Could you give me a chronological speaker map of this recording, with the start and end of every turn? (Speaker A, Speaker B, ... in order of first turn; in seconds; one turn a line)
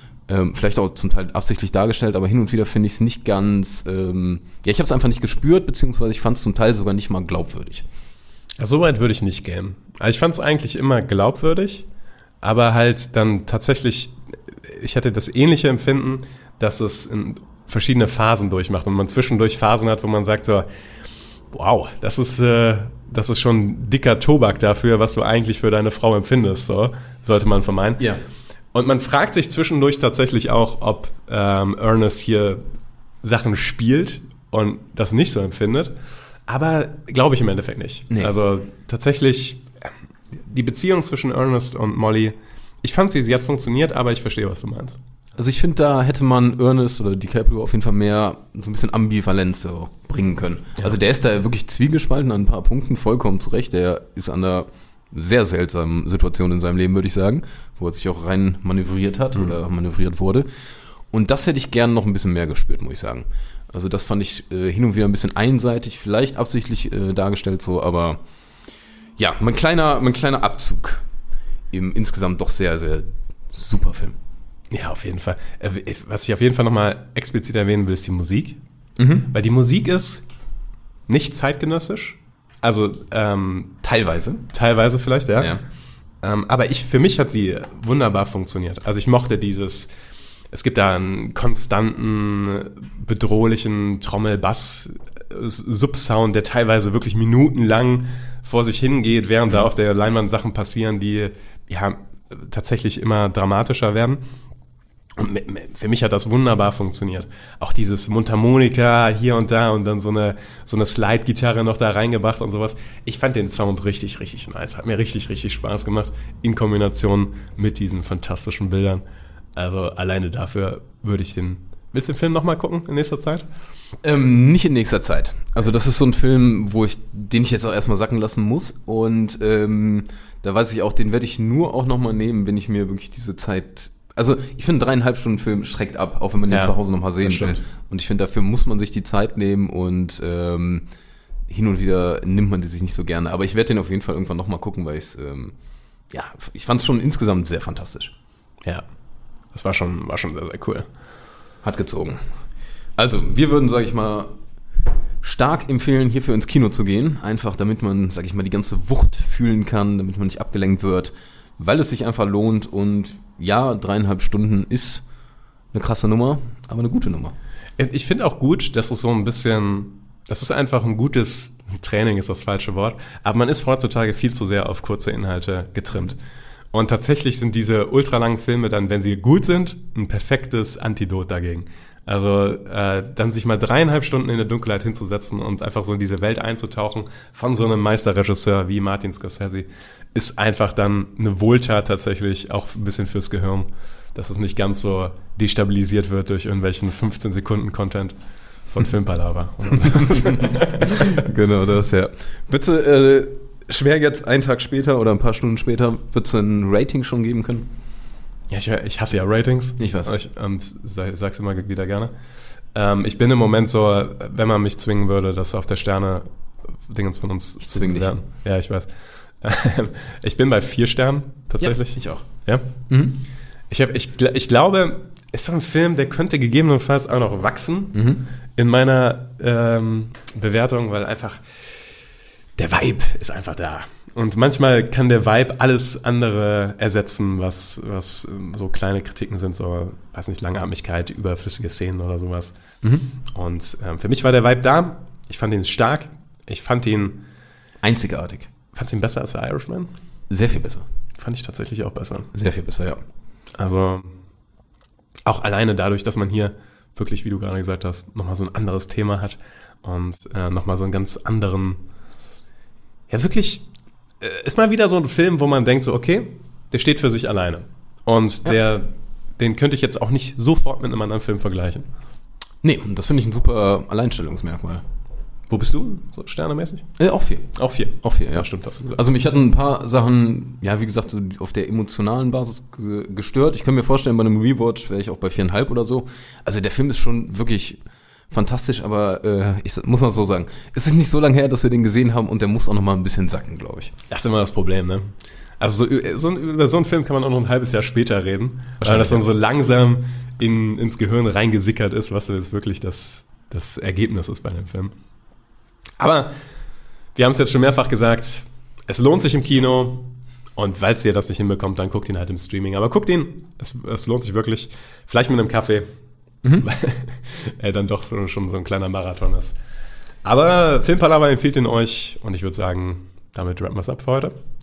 Speaker A: 0.3-7.9
Speaker B: 8.6-11.9
Speaker B: 12.4-20.7
Speaker B: 21.5-28.0
Speaker B: 28.7-32.6
Speaker B: 33.2-35.9
Speaker B: 36.5-45.0
Speaker A: 45.4-60.5
Speaker A: 61.1-68.2
Speaker A: 69.2-71.0
Speaker A: 71.7-74.2
Speaker B: 74.7-78.6
Speaker A: 79.0-79.3
Speaker B: 79.3-80.2
Speaker B: 81.1-83.8
Speaker A: 83.8-84.5
Speaker B: 84.5-85.5
Speaker B: 86.2-89.9
Speaker B: 90.5-104.2
Speaker B: 105.2-119.0
Speaker B: 119.6-123.5
Speaker A: 124.0-140.9
Speaker B: 136.5-137.6
Speaker A: 141.5-145.5
Speaker A: 146.1-148.1
Speaker B: 149.5-150.9
Speaker A: 151.6-152.2
Speaker A: 153.0-154.3
Speaker A: 155.2-165.0
Speaker A: 165.7-167.3
Speaker B: 167.8-176.2
Speaker B: 176.7-198.2
Speaker B: 198.7-200.9
Speaker A: 199.9-207.7
Speaker B: 208.5-212.1
Speaker A: 209.8-210.1
Speaker B: 212.7-216.3
Speaker B: 216.9-218.9
Speaker A: 217.7-218.1
Speaker B: 219.4-222.8
Speaker A: 221.6-222.3
Speaker A: 222.9-223.2
Speaker B: 223.7-228.0
Speaker A: 227.9-228.2
Speaker B: 228.6-231.4
Speaker B: 232.6-242.6
Speaker A: 242.8-243.1
Speaker B: 243.2-247.2
Speaker A: 247.8-248.5
Speaker B: 248.7-249.9
Speaker A: 250.3-250.9
Speaker B: 251.2-252.3
Speaker A: 252.3-253.0
Speaker B: 253.6-254.1
Speaker B: 255.3-261.8
Speaker B: 263.1-263.7
Speaker B: 264.2-271.9
Speaker A: 272.6-274.8
Speaker B: 275.5-276.9
Speaker A: 277.0-287.8
Speaker B: 277.6-279.0
Speaker A: 288.3-293.9
Speaker B: 294.1-304.9
Speaker A: 298.8-299.3
Speaker B: 306.0-306.3
Speaker B: 307.1-315.9
Speaker B: 316.6-319.6
Speaker B: 320.2-324.3